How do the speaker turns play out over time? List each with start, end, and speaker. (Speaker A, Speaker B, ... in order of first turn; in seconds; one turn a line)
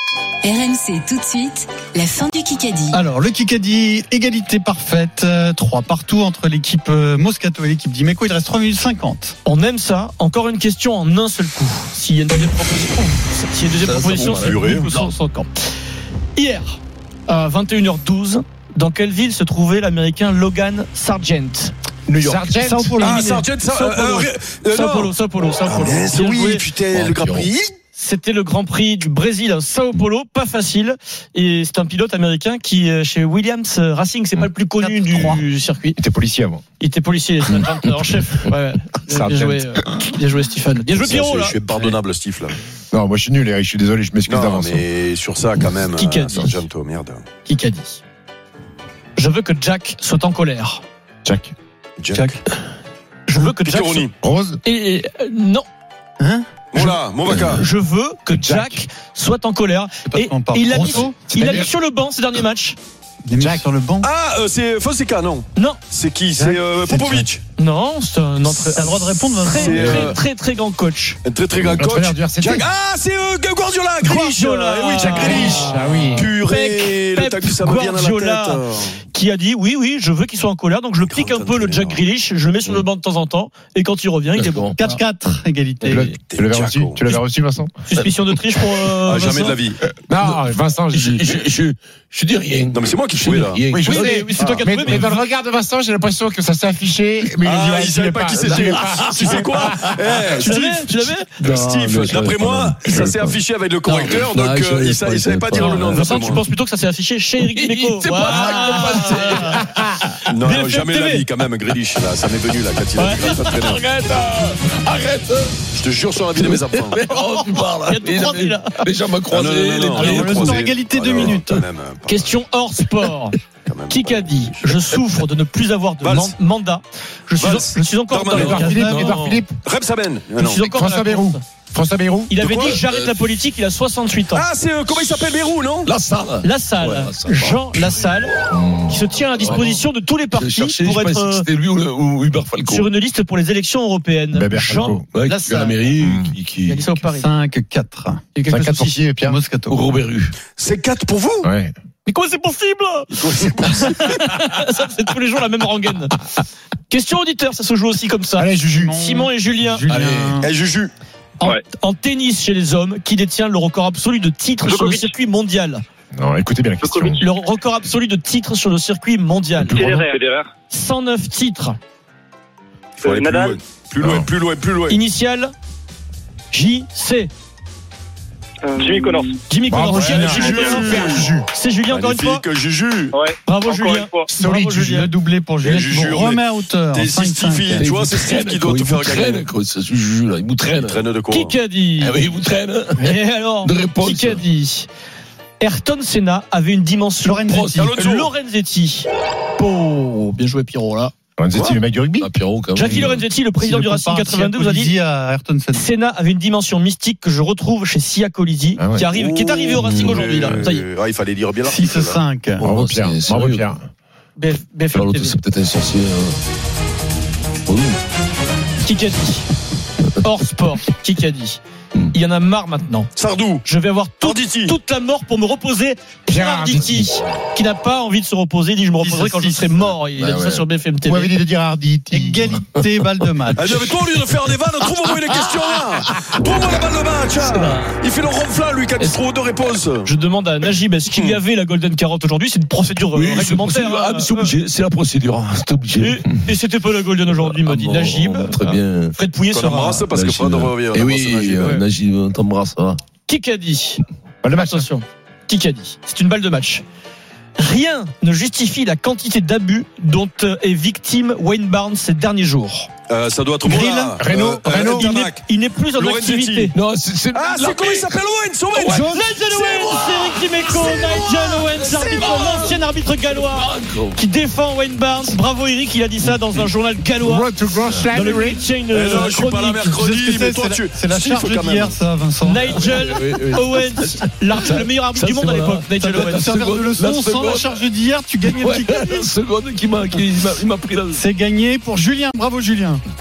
Speaker A: 0.4-2.9
Speaker B: 2.9-9.4
Speaker C: 9.4-15.5
Speaker D: 13.8-15.1
Speaker E: 14.4-14.9
Speaker C: 16.3-21.7
Speaker F: 22.1-23.2
Speaker C: 22.2-26.6
Speaker E: 23.0-25.1
Speaker E: 25.6-27.7
Speaker D: 26.9-27.5
Speaker C: 27.9-36.0
Speaker B: 34.8-35.4
Speaker F: 35.1-35.4
Speaker F: 36.0-36.6
Speaker C: 36.8-41.6
Speaker F: 39.1-39.8
Speaker E: 40.9-42.5
Speaker B: 41.7-42.0
Speaker F: 42.9-44.9
Speaker E: 44.3-47.2
Speaker C: 45.9-46.6
Speaker C: 47.5-48.0
Speaker C: 49.1-50.8
Speaker F: 51.2-51.5
Speaker E: 52.0-52.3
Speaker B: 52.1-52.4
Speaker C: 53.3-54.1
Speaker E: 53.6-54.1
Speaker F: 54.2-54.6
Speaker C: 54.6-55.6
Speaker B: 56.2-56.9
Speaker E: 56.7-57.6
Speaker F: 57.3-57.5
Speaker C: 57.5-62.8
Speaker F: 58.3-58.8
Speaker B: 60.0-61.1
Speaker F: 61.2-61.7
Speaker B: 63.2-64.1
Speaker F: 63.4-63.6
Speaker E: 64.0-67.4
Speaker F: 66.3-67.3
Speaker C: 67.5-71.2
Speaker B: 68.4-70.2
Speaker E: 69.5-70.2
Speaker E: 71.2-79.0
Speaker F: 71.6-72.7
Speaker C: 74.0-85.0
Speaker F: 75.0-76.3
Speaker E: 81.0-82.0
Speaker D: 84.3-84.8
Speaker B: 84.8-86.1
Speaker D: 85.8-86.1
Speaker F: 85.8-87.7
Speaker E: 86.2-87.0
Speaker C: 87.9-89.6
Speaker E: 89.1-89.8
Speaker F: 89.9-91.2
Speaker D: 90.2-94.1
Speaker E: 92.7-93.6
Speaker F: 93.7-100.0
Speaker C: 93.8-95.2
Speaker E: 94.4-95.0
Speaker E: 97.4-106.4
Speaker D: 98.3-99.6
Speaker C: 100.4-101.8
Speaker D: 101.5-106.4
Speaker C: 103.8-104.3
Speaker C: 105.6-109.6
Speaker D: 107.4-110.0
Speaker E: 110.3-113.8
Speaker C: 110.4-111.3
Speaker C: 113.0-113.5
Speaker D: 113.2-115.6
Speaker E: 115.7-117.0
Speaker D: 116.3-120.6
Speaker C: 117.1-118.8
Speaker E: 119.3-122.4
Speaker C: 119.9-123.3
Speaker B: 120.0-121.6
Speaker E: 123.6-124.8
Speaker C: 123.9-128.9
Speaker E: 126.0-126.3
Speaker E: 127.4-128.6
Speaker F: 128.3-129.6
Speaker D: 128.3-129.4
Speaker B: 128.5-129.2
Speaker E: 129.6-130.6
Speaker C: 130.4-131.4
Speaker F: 130.6-132.3
Speaker C: 132.3-134.5
Speaker E: 132.4-132.8
Speaker D: 132.8-133.2
Speaker E: 134.3-135.9
Speaker D: 135.8-137.9
Speaker C: 136.4-138.3
Speaker D: 138.5-142.9
Speaker C: 138.9-141.5
Speaker C: 142.7-145.9
Speaker F: 144.3-145.1
Speaker D: 145.1-146.9
Speaker F: 146.0-146.3
Speaker C: 146.6-147.3
Speaker B: 147.2-148.2
Speaker C: 148.3-149.0
Speaker F: 148.4-149.4
Speaker B: 149.2-149.8
Speaker D: 149.7-150.3
Speaker E: 150.6-151.5
Speaker F: 151.4-151.7
Speaker C: 152.0-156.2
Speaker E: 153.1-154.2
Speaker C: 156.9-159.9
Speaker F: 158.3-158.9
Speaker B: 158.6-160.5
Speaker D: 159.9-160.4
Speaker E: 160.4-160.9
Speaker C: 161.4-165.8
Speaker G: 164.7-165.1
Speaker F: 166.1-167.2
Speaker C: 167.1-170.1
Speaker E: 169.7-170.0
Speaker G: 169.7-170.5
Speaker C: 170.7-171.8
Speaker E: 173.0-175.0
Speaker G: 173.0-173.4
Speaker F: 174.0-174.3
Speaker C: 174.9-175.5
Speaker C: 176.5-177.3
Speaker G: 178.6-179.4
Speaker C: 179.5-182.4
Speaker F: 179.7-181.5
Speaker E: 180.3-181.3
Speaker E: 181.9-183.2
Speaker G: 183.1-184.3
Speaker C: 183.4-185.1
Speaker F: 184.3-185.1
Speaker B: 184.9-187.9
Speaker E: 185.6-189.5
Speaker D: 187.7-191.0
Speaker E: 190.8-191.5
Speaker C: 191.3-192.2
Speaker D: 192.0-194.4
Speaker C: 192.9-194.9
Speaker C: 195.6-201.1
Speaker B: 197.2-198.0
Speaker E: 197.7-198.3
Speaker F: 201.4-202.3
Speaker E: 201.5-201.8
Speaker D: 202.2-203.2
Speaker C: 202.7-204.9
Speaker B: 202.9-205.8
Speaker C: 205.7-210.8
Speaker F: 208.8-209.0
Speaker E: 209.1-212.2
Speaker D: 209.8-210.5
Speaker B: 211.6-212.6
Speaker F: 212.6-213.8
Speaker D: 212.6-213.7
Speaker C: 214.3-215.4
Speaker D: 214.9-216.4
Speaker D: 217.7-218.0
Speaker C: 218.8-219.5
Speaker C: 220.2-221.6
Speaker C: 222.1-223.1
Speaker E: 223.2-223.6
Speaker C: 223.6-231.4
Speaker E: 224.2-224.8
Speaker F: 226.3-227.0
Speaker B: 229.0-229.9
Speaker D: 230.2-230.6
Speaker F: 231.0-232.6
Speaker B: 232.1-234.0
Speaker E: 233.6-240.1
Speaker D: 236.0-236.3
Speaker D: 237.3-238.0
Speaker C: 240.0-244.5
Speaker E: 241.1-241.4
Speaker D: 243.1-246.5
Speaker C: 245.9-250.1
Speaker D: 247.2-249.1
Speaker E: 249.5-251.7
Speaker D: 250.1-253.0
Speaker C: 253.3-254.0
Speaker F: 254.4-254.9
Speaker C: 254.5-256.8
Speaker C: 257.6-262.9
Speaker E: 263.1-266.7
Speaker B: 263.6-264.2
Speaker F: 264.2-265.1
Speaker C: 264.9-266.7
Speaker D: 266.7-268.1
Speaker E: 267.3-269.8
Speaker D: 268.7-274.2
Speaker C: 268.9-277.5
Speaker F: 277.1-278.6
Speaker C: 278.1-279.9
Speaker E: 278.9-282.0
Speaker B: 279.8-282.8
Speaker C: 282.4-286.6
Speaker D: 282.7-287.8
Speaker B: 285.9-289.3
Speaker D: 288.4-291.2
Speaker B: 291.1-293.0